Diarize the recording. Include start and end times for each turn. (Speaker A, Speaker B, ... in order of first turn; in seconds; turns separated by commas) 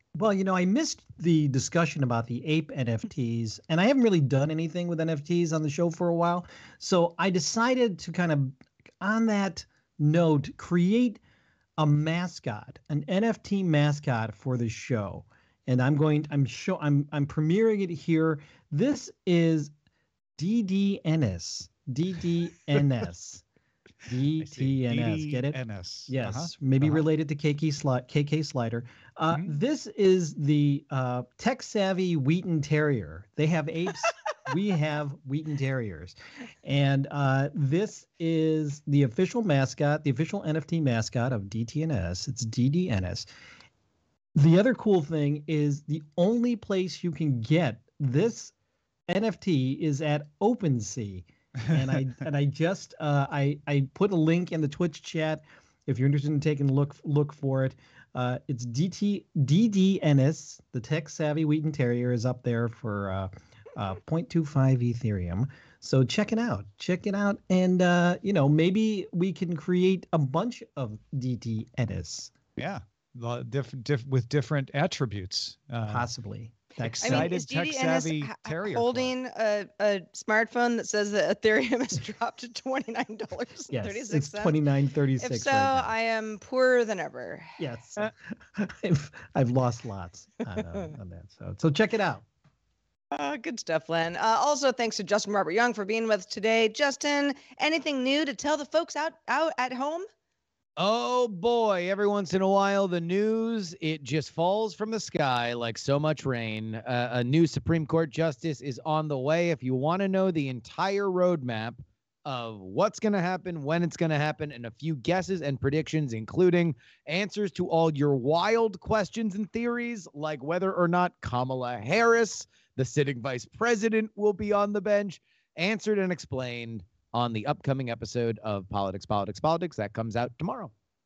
Speaker A: 0.2-11.2, Speaker A: 11.8-19.7, Speaker A: 20.4-23.4, Speaker A: 24.1-25.6, Speaker B: 24.4-27.1, Speaker A: 26.1-43.3, Speaker A: 44.4-48.5, Speaker A: 49.1-72.3, Speaker B: 72.6-76.1, Speaker A: 75.9-77.3, Speaker B: 76.8-79.1, Speaker C: 77.0-84.6, Speaker A: 83.7-85.9, Speaker C: 85.2-87.6, Speaker A: 87.6-92.2, Speaker C: 93.1-100.1, Speaker D: 100.8-130.7